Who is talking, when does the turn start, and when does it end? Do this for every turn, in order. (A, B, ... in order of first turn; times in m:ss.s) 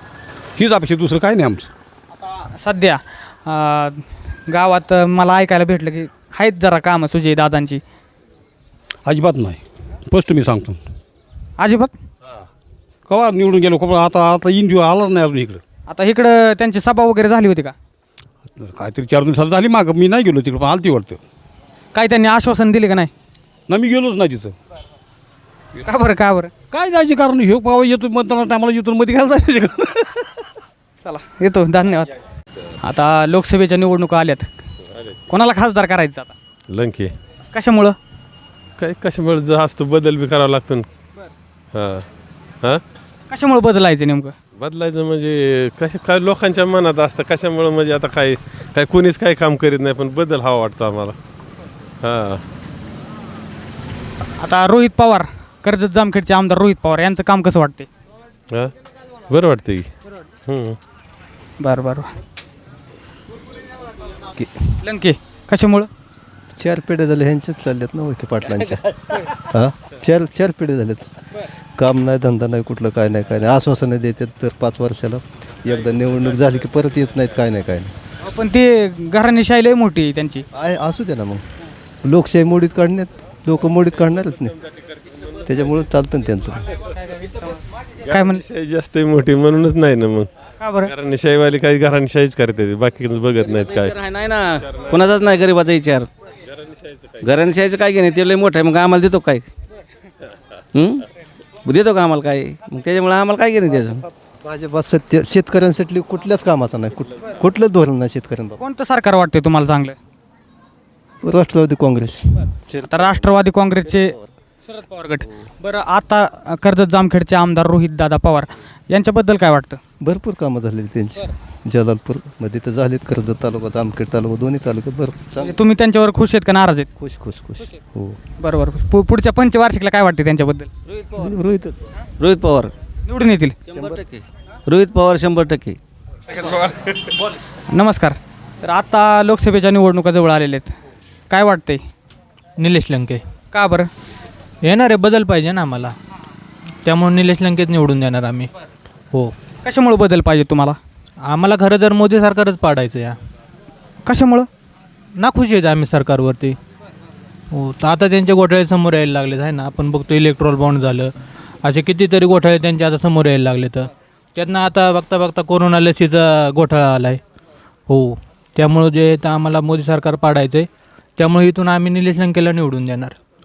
0:00.6-0:01.7 A
0:02.2-0:07.8 B
0:09.1-0:10.8 A
0:11.6-0:11.9 B
0:13.1-0:15.6 A
0:15.9-0:17.8 B
0:18.6-0:21.2 A
0:21.9-0:23.1 B
0:23.7-0:24.6 A
0:25.8-0:26.5 B
0:26.7-0:30.3 A
0:31.0-0:32.1 B
0:32.8-0:34.5 B
0:35.3-0:36.4 B
0:36.7-0:37.1 C
0:37.5-0:38.0 B
0:38.8-0:40.9 C
0:41.7-0:42.1 C
0:43.3-0:44.4 B
0:44.6-0:51.2 C
0:52.0-0:52.4 C
0:54.4-0:57.9 B
0:59.3-0:59.9 C
1:00.5-1:00.8 C
1:01.6-1:02.1 B
1:04.8-1:05.9 B
1:06.5-1:09.0 D
1:09.5-1:11.2 D
1:11.8-1:17.9 D
1:18.2-1:20.4 B
1:20.5-1:21.4 D
1:22.0-1:24.6 D
1:25.4-1:26.7 D
1:27.1-1:28.4 B
1:28.4-1:30.3 C
1:30.6-1:30.9 B
1:30.9-1:34.0 C
1:33.5-1:36.1 E
1:37.2-1:39.4 E
1:40.8-1:41.0 E
1:41.6-1:44.0 E
1:44.4-1:48.6 D
1:48.6-1:50.0 B
1:51.2-1:53.2 D
1:52.8-1:59.8 B
2:00.0-2:05.5 D
2:05.4-2:06.9 B
2:07.0-2:08.2 D
2:08.4-2:10.7 B
2:10.9-2:11.3 E
2:11.2-2:11.8 D
2:12.2-2:12.7 E
2:13.1-2:13.6 B
2:13.7-2:15.8 E
2:13.7-2:14.0 D
2:17.7-2:20.7 B
2:21.3-2:21.8 B
2:22.6-2:23.2 F
2:23.5-2:23.9 B
2:24.6-2:26.0 F
2:26.8-2:28.5 F
2:29.6-2:30.8 B
2:31.3-2:33.2 F
2:34.0-2:34.5 B
2:35.2-2:36.6 F
2:37.5-2:41.1 F
2:41.6-2:47.2 F
2:47.9-2:53.2 F